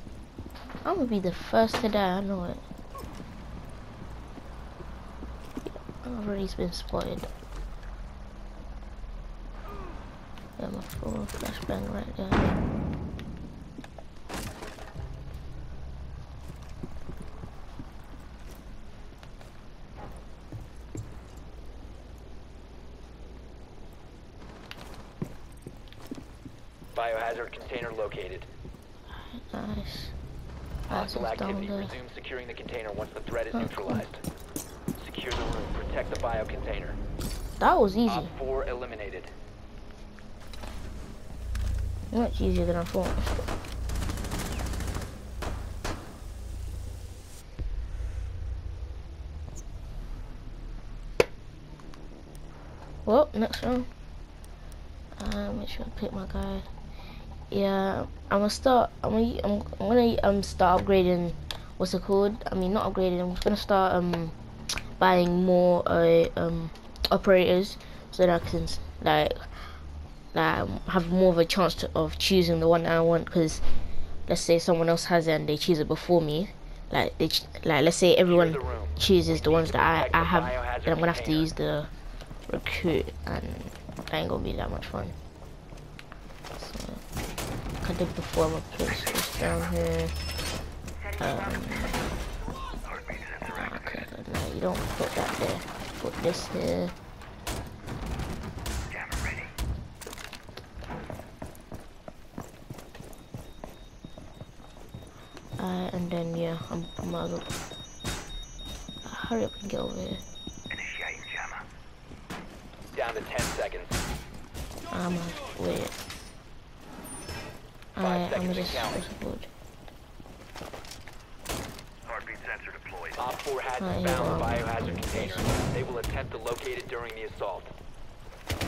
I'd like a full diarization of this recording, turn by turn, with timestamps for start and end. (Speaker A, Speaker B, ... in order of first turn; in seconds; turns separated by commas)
Speaker A: 0.8-2.6, Speaker A: 5.6-7.3, Speaker A: 10.6-12.6, Speaker B: 26.9-28.5, Speaker A: 29.1-30.1, Speaker B: 30.9-34.2, Speaker A: 30.9-31.9, Speaker A: 33.5-34.0, Speaker B: 35.0-37.0, Speaker A: 37.6-38.3, Speaker B: 38.0-39.3, Speaker A: 42.1-43.5, Speaker A: 53.0-53.9, Speaker A: 55.2-56.7, Speaker A: 57.5-64.3, Speaker A: 65.0-69.4, Speaker A: 70.3-73.7, Speaker A: 74.3-81.9, Speaker B: 78.2-81.5, Speaker A: 82.5-85.2, Speaker A: 86.6-87.0, Speaker A: 87.8-90.2, Speaker A: 91.2-92.0, Speaker A: 93.4-96.9, Speaker C: 99.0-99.4, Speaker A: 105.6-107.5, Speaker A: 109.0-110.2, Speaker C: 110.8-111.6, Speaker B: 112.9-114.0, Speaker A: 114.9-115.9, Speaker A: 117.9-119.5, Speaker B: 118.0-119.0, Speaker C: 122.1-123.2, Speaker B: 123.2-127.7, Speaker A: 123.8-125.6